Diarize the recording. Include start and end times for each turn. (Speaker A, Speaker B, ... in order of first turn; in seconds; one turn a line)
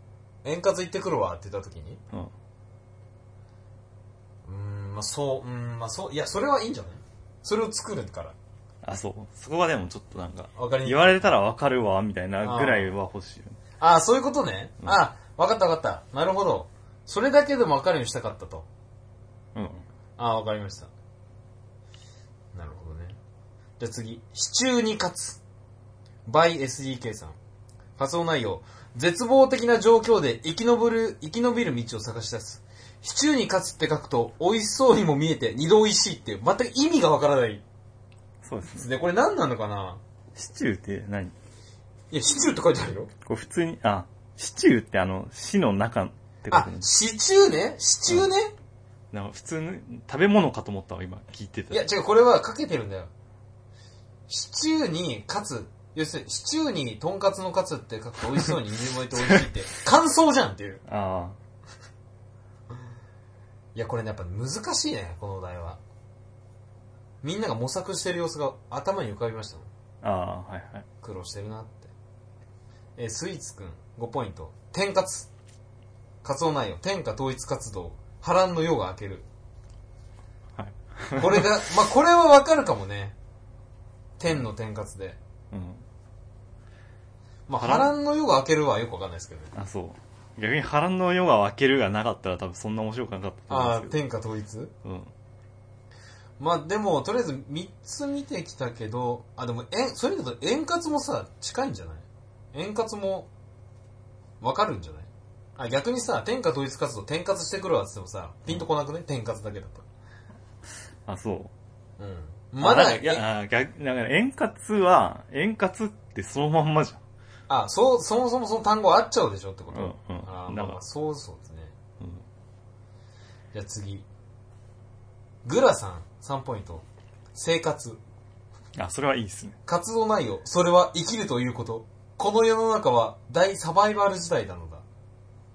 Speaker A: 0.4-2.0
Speaker A: 4.5-8.4
Speaker B: 8.8-13.6
Speaker A: 10.6-11.3
Speaker A: 12.4-12.9
Speaker A: 13.8-18.7
Speaker B: 19.6-19.9
Speaker A: 20.2-20.9
Speaker A: 22.5-23.2
Speaker A: 23.8-25.4
Speaker A: 26.3-27.4
Speaker A: 28.0-37.6
Speaker B: 38.4-38.9
Speaker A: 38.7-40.0
Speaker B: 40.4-41.4
Speaker A: 42.1-43.1
Speaker B: 43.2-46.9
Speaker A: 46.5-48.5
Speaker B: 49.1-51.8
Speaker A: 51.7-53.1
Speaker A: 54.3-60.8
Speaker B: 60.9-61.4
Speaker A: 63.8-65.8
Speaker A: 67.2-69.7
Speaker B: 70.0-70.9
Speaker A: 71.0-71.9
Speaker A: 73.0-75.3
Speaker A: 76.2-79.3
Speaker B: 80.6-81.6
Speaker A: 81.2-83.2
Speaker A: 84.2-85.2
Speaker B: 85.5-85.8
Speaker A: 87.5-89.5
Speaker B: 87.6-88.0
Speaker B: 89.5-94.0
Speaker A: 93.5-94.7
Speaker B: 94.8-95.1
Speaker A: 96.4-103.3
Speaker A: 104.4-109.8
Speaker B: 111.1-111.5
Speaker A: 112.0-113.2
Speaker B: 112.6-117.0
Speaker A: 117.5-121.7
Speaker B: 119.7-120.8
Speaker B: 122.0-122.2
Speaker A: 123.5-124.1
Speaker A: 125.5-128.0
Speaker B: 128.8-129.6
Speaker A: 129.7-134.8